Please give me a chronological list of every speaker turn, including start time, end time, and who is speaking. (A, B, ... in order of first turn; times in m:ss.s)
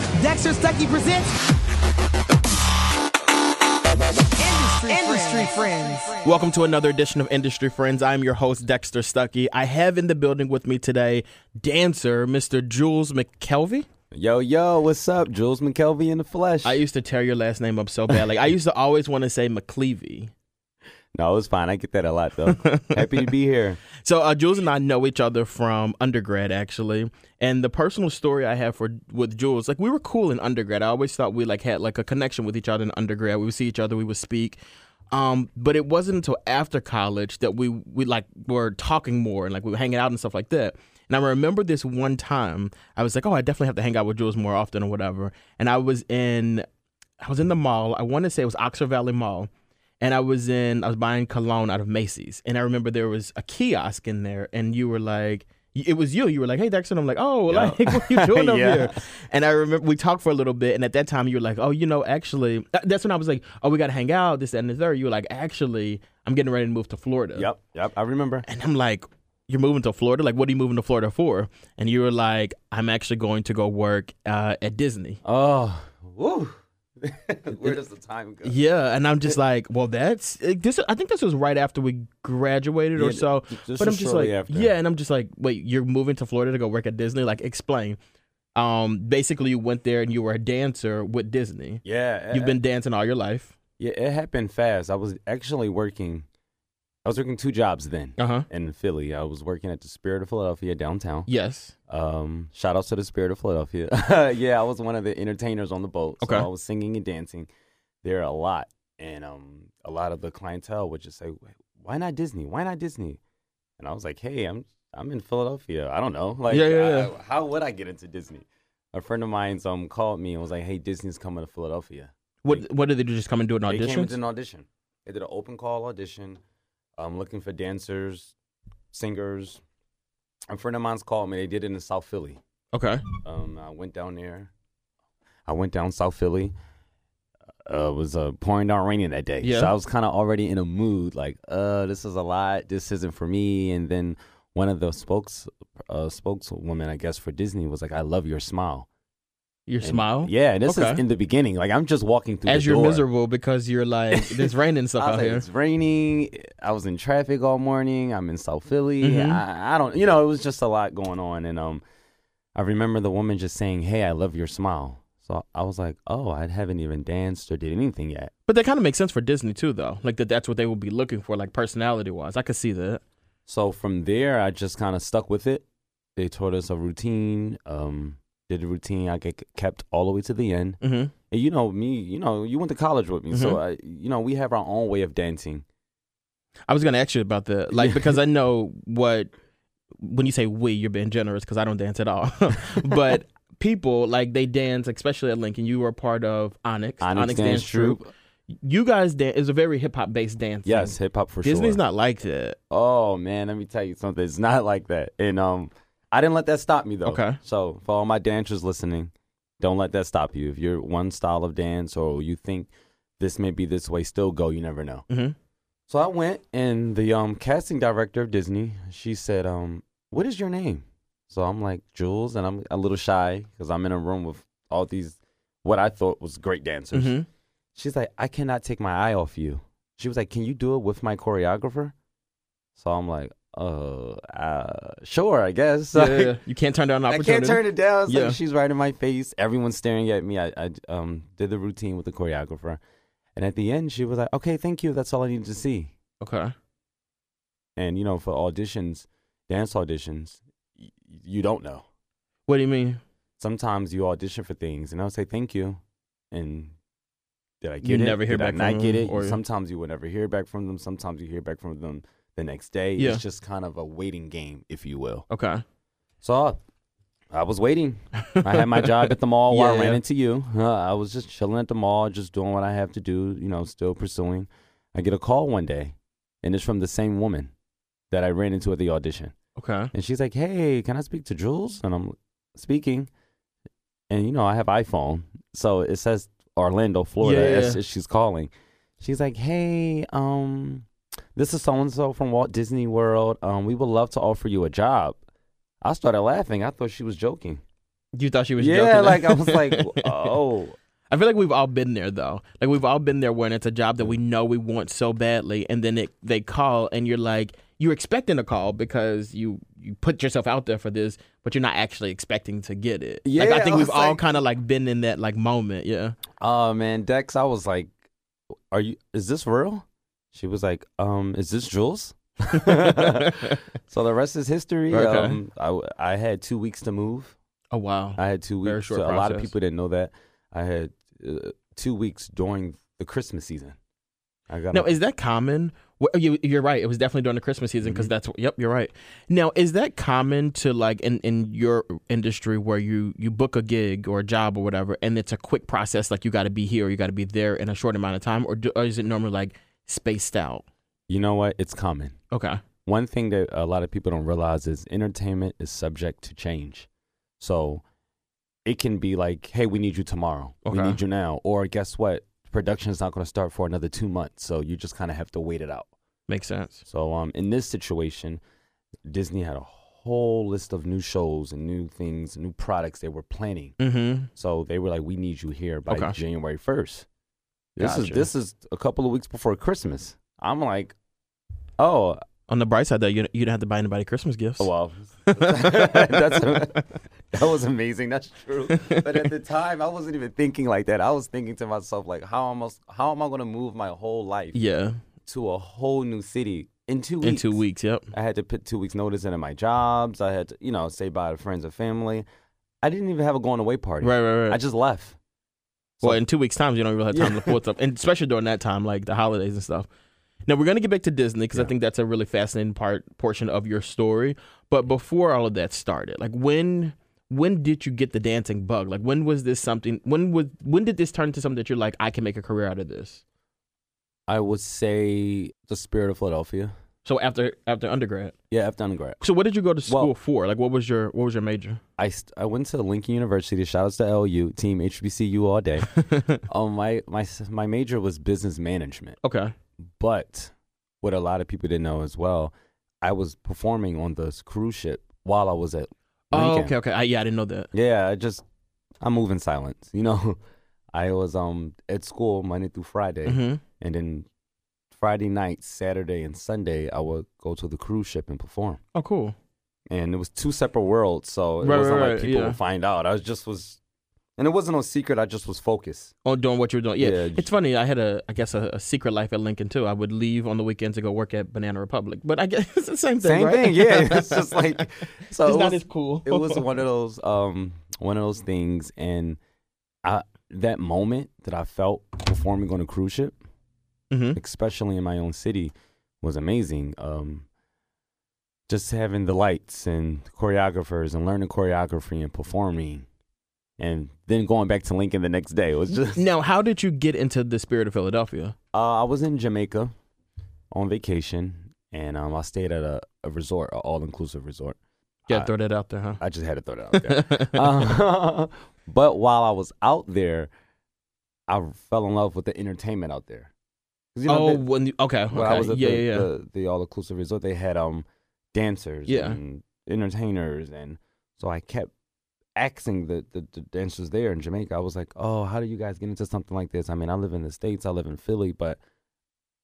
0:00.2-0:01.3 A
0:04.4-0:06.3 A
0:06.2-0:13.9 B
0:14.1-0:16.8 C
0:16.6-0:20.3 B
0:21.1-0:23.8 C
0:22.5-0:23.3 B
0:24.0-0:34.6 B
0:35.1-0:46.6 B
0:47.2-0:49.5 B
0:50.0-1:07.5 B
0:57.5-0:59.0 C
1:07.4-1:08.4 C
1:08.4-1:15.2 B
1:15.2-1:18.6 C
1:18.4-1:28.0 B
1:23.0-1:24.7 C
1:28.5-1:33.6 B
1:31.8-1:32.6 C
1:33.8-1:36.2 C
1:37.0-1:41.3 C
1:38.2-1:38.4 B
1:41.3-1:41.7 B
1:41.9-1:47.5 C
1:46.2-1:46.5 B
1:48.0-1:53.2 C
1:53.8-2:02.6 C
1:56.5-1:57.1 B
2:02.4-2:04.1 B
2:03.7-2:06.4 C
2:07.0-2:08.3 C
2:08.9-2:09.6 C
2:10.5-2:12.4 C
2:12.7-2:13.0 B
2:13.2-2:14.5 C
2:15.5-2:16.5 C
2:17.6-2:28.9 C
2:19.4-2:19.7 B
2:29.7-2:31.0 B
2:29.8-2:33.0 C
2:32.4-2:35.4 B
2:34.1-2:41.8 C
2:39.0-2:39.4 B
2:42.5-2:48.3 C
2:48.5-2:53.0 B
2:53.5-2:55.6 C
2:56.2-3:00.8 C
3:00.8-3:01.1 B
3:01.3-3:05.6 C
3:03.3-3:03.6 B
3:06.7-3:09.3 B
3:07.7-3:08.2 C
3:10.0-3:18.0 B
3:17.0-3:18.1 C
3:18.6-3:22.6 B
3:20.6-3:21.8 C
3:22.7-3:35.0 C
3:27.0-3:27.4 B
3:35.1-3:35.3 B
3:35.9-3:47.2 C
3:46.9-3:47.2 B
3:47.7-3:51.9 C
3:52.8-3:56.4 C
3:55.9-3:58.4 B
3:57.1-4:02.8 C
4:03.4-4:05.9 C
4:06.2-4:06.5 B
4:07.8-4:11.8 C
4:12.5-4:13.0 B
4:13.4-4:15.8 C
4:16.3-4:16.7 C
4:17.6-4:25.2 C
4:17.8-4:19.4 B
4:23.0-4:23.2 B
4:25.3-4:25.6 B
4:26.2-4:26.6 C
4:27.3-4:37.5 C
4:28.3-4:30.0 B
4:38.1-4:39.3 C
4:39.6-4:39.9 B
4:39.9-4:43.1 C
4:44.1-4:55.2 C
4:47.2-4:47.8 B
4:55.8-4:57.6 C
4:58.1-5:00.1 B
4:58.6-5:00.7 C
5:01.1-5:16.2 B
5:13.2-5:14.2 C
5:16.4-5:17.9 C
5:18.7-5:27.3 C
5:22.6-5:23.6 B
5:24.9-5:25.4 B
5:27.7-5:29.5 B
5:28.2-5:33.8 C
5:34.5-5:35.0 C
5:34.7-5:50.6 B
5:37.8-5:38.1 C
5:51.1-5:52.2 C
5:52.3-5:52.6 B
5:52.8-5:56.9 C
5:57.4-5:57.8 C
5:58.6-6:05.9 C
6:00.6-6:01.0 B
6:06.3-6:06.8 B
6:06.8-6:08.4 C
6:09.1-6:13.7 C
6:13.8-6:14.3 B
6:14.4-6:17.0 C
6:15.9-6:16.2 B
6:17.8-6:20.9 C
6:17.8-6:18.2 B
6:21.8-6:22.2 C
6:22.5-6:24.7 B
6:24.6-6:26.8 C
6:25.2-6:26.8 B
6:27.3-6:34.6 C
6:34.5-6:35.0 B
6:35.2-6:37.6 C
6:37.2-6:38.1 B
6:38.1-6:42.2 C
6:42.8-6:45.2 C
6:44.0-6:44.6 B
6:46.0-6:49.9 B
6:47.1-6:47.6 C
6:50.4-7:03.2 B
7:04.3-7:06.7 C
7:07.0-7:08.3 B
7:08.5-7:09.2 C
7:09.2-7:11.8 B
7:09.9-7:10.1 C
7:12.0-7:15.9 C
7:15.9-7:16.4 B
7:16.4-7:19.2 C
7:19.2-7:19.5 B
7:20.0-7:26.7 C
7:26.3-7:27.7 B
7:27.7-7:28.4 C
7:29.0-7:30.4 C
7:30.9-7:34.3 C
7:33.2-7:33.6 B
7:34.9-7:38.8 C
7:38.9-7:39.4 B
7:39.9-7:43.8 C
7:41.6-7:42.6 B
7:44.4-7:46.1 C
7:46.2-7:54.8 B
7:47.0-7:47.5 C
7:53.2-7:59.4 C
7:55.4-7:56.6 B
8:00.0-8:03.4 C
8:04.1-8:04.4 B
8:04.4-8:07.4 C
8:08.7-8:13.0 C
8:13.8-8:16.2 C
8:15.9-8:18.5 B
8:18.7-8:19.9 C
8:20.7-8:24.8 C
8:25.3-8:26.2 B
8:26.2-8:30.5 C
8:26.9-8:27.6 B
8:31.5-8:33.5 C
8:34.1-8:34.6 C
8:34.3-8:36.3 B
8:35.3-8:41.9 C
8:39.1-8:39.4 B
8:42.6-8:48.8 C